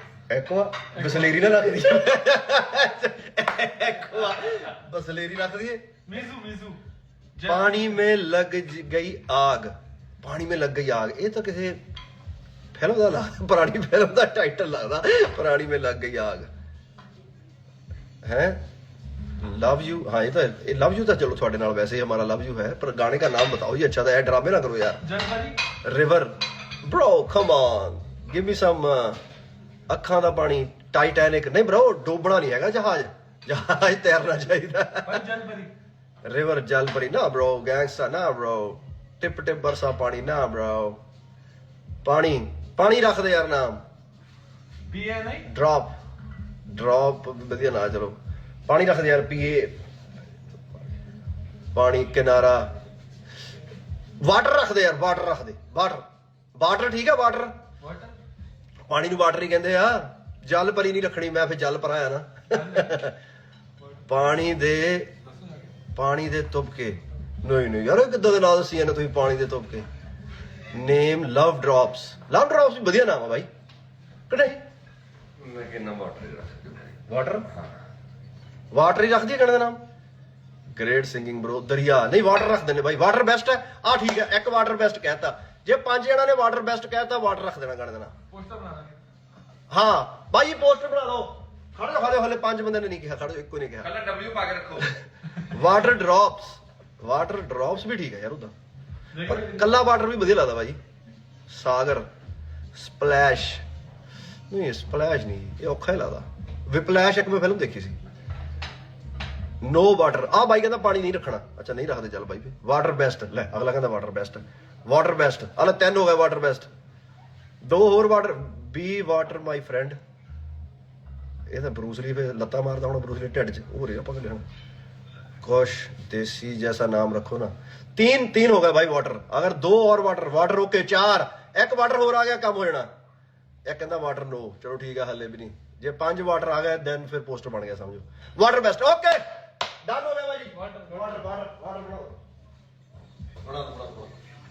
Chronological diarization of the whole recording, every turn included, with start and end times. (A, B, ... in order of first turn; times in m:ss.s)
0:00.3-0:05.8 A
0:00.9-0:01.7 B
0:06.0-0:06.8 B
0:07.4-0:07.9 B
0:07.4-0:11.8 A
0:12.7-0:16.5 A
0:18.2-0:18.6 A
0:19.4-0:25.0 A
0:25.0-0:25.6 B
0:25.8-0:29.2 A
0:29.9-0:35.2 A
0:35.0-0:35.7 B
0:36.2-0:41.0 A
0:42.0-0:43.8 A
0:44.9-0:45.4 B
0:45.4-0:45.9 A
0:46.7-0:49.7 A
0:51.7-0:52.7 A
0:54.2-0:56.0 A
0:56.6-0:57.5 A
0:57.8-0:58.2 B
0:58.9-1:03.2 A
1:02.5-1:03.0 B
1:04.1-1:05.1 A
1:05.2-1:05.7 B
1:05.9-1:09.8 A
1:10.7-1:13.5 A
1:14.3-1:14.6 A
1:15.4-1:17.0 C
1:17.0-1:17.5 A
1:18.7-1:19.8 A
1:20.7-1:28.1 A
1:28.3-1:29.0 B
1:29.7-1:33.9 A
1:33.8-1:34.9 C
1:35.4-1:38.5 A
1:39.1-1:39.7 B
1:39.2-1:40.8 A
1:41.5-1:42.1 A
1:42.7-1:43.6 A
1:44.5-1:48.0 A
1:49.6-1:56.7 A
1:57.6-2:00.0 A
2:01.5-2:04.4 A
2:05.4-2:12.9 A
2:13.6-2:19.2 A
2:19.8-2:22.2 A
2:20.6-2:20.9 B
2:23.4-2:24.1 A